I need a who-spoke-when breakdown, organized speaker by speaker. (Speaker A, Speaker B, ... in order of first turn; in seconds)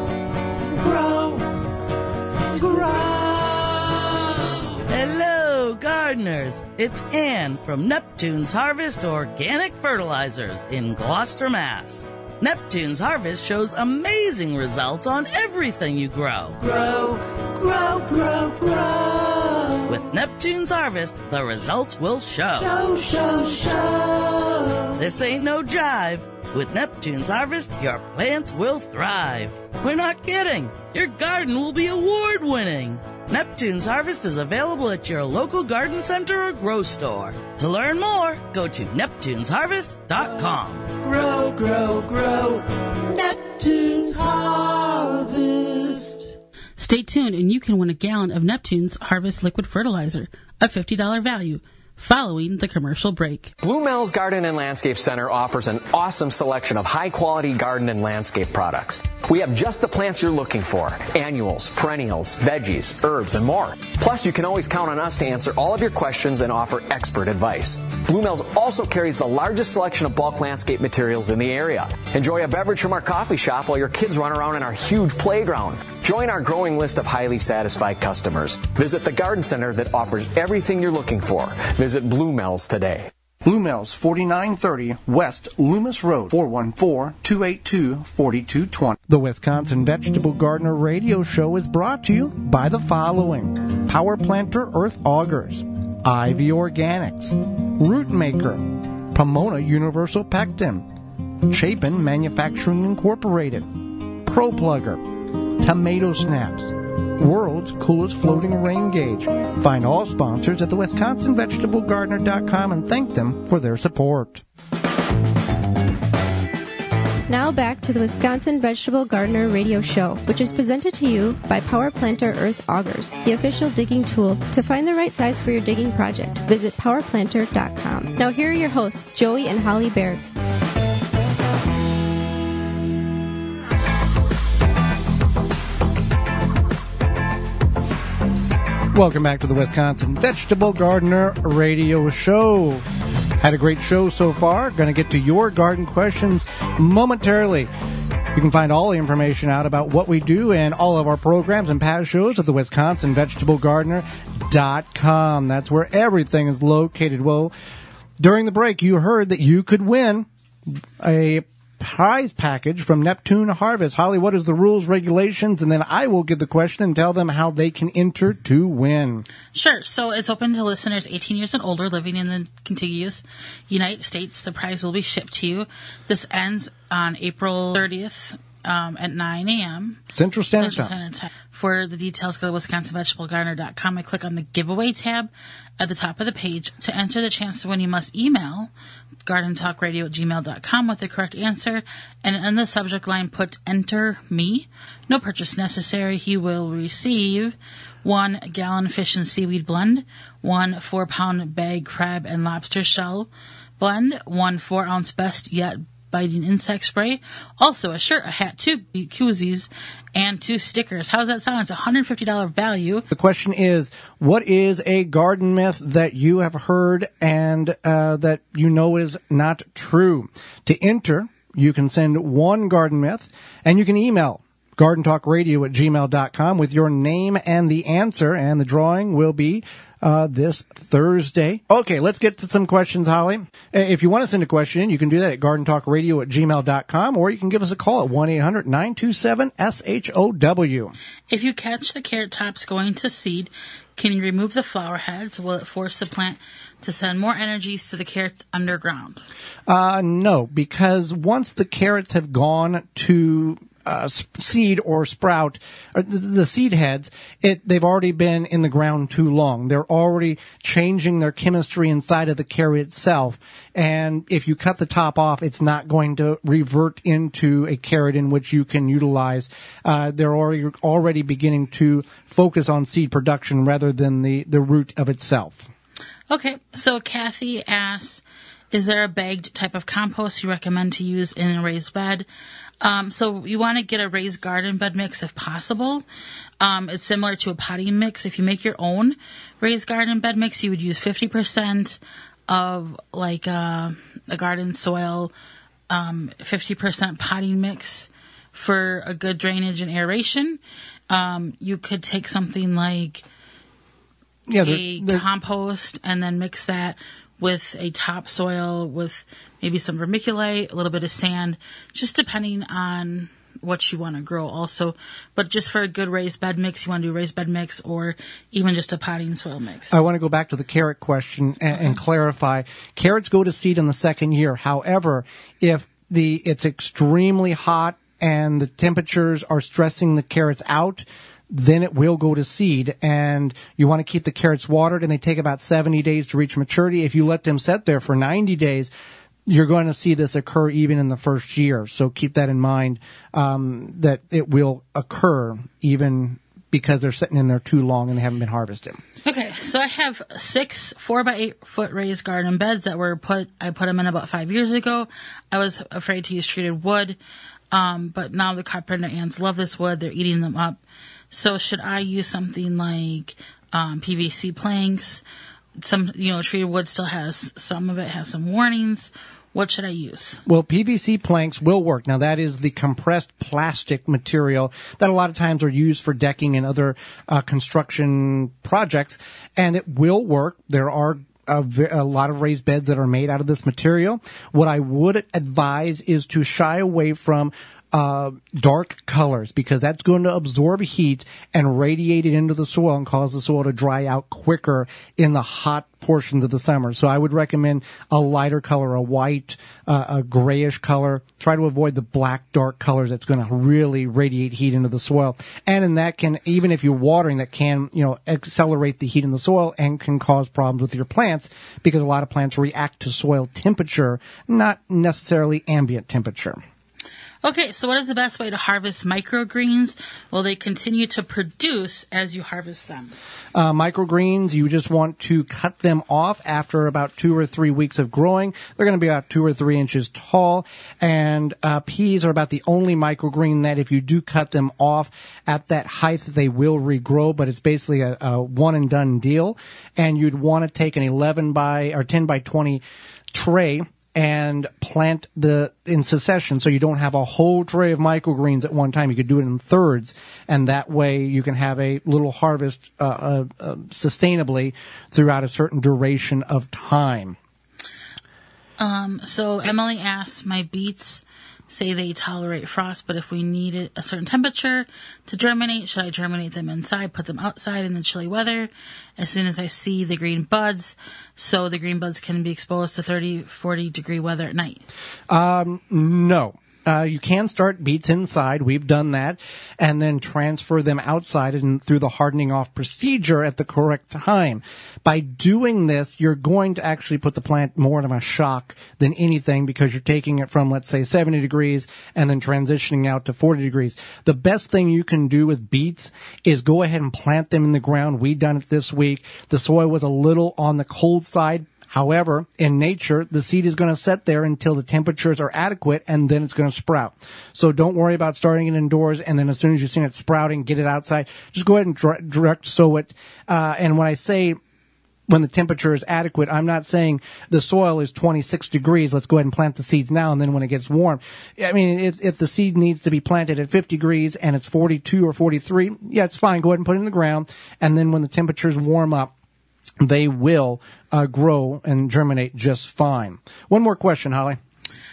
Speaker A: 0.8-1.5, 2.6-4.0, 16.7-19.8, 22.7-24.7, 41.0-46.1
Speaker B: 2.9-3.2, 4.9-16.7, 19.9-22.8, 24.9-41.0
Speaker C: 46.8-53.5, 169.5-180.0, 180.5-188.7, 189.2-213.1, 241.3-249.2, 276.3-282.3, 282.8-286.1, 286.6-295.3, 295.9-300.6, 301.1-303.2, 304.6-319.9, 349.2-357.2, 357.7-360.8, 361.3-365.2, 365.8-370.4, 417.4-423.1, 458.8-474.8
Speaker D: 53.6-83.1
Speaker E: 83.4-100.9, 101.4-114.4, 138.9-142.8, 143.4-147.7, 148.3-157.5, 158.2-160.3, 161.0-169.3, 180.1-180.9, 213.1-240.9, 249.7-275.7, 304.5-305.2, 319.9-338.9, 339.4-349.0, 370.4-416.6, 423.5-457.4, 475.3-514.6, 515.3-529.3, 530.0-534.6
Speaker F: 117.3-130.2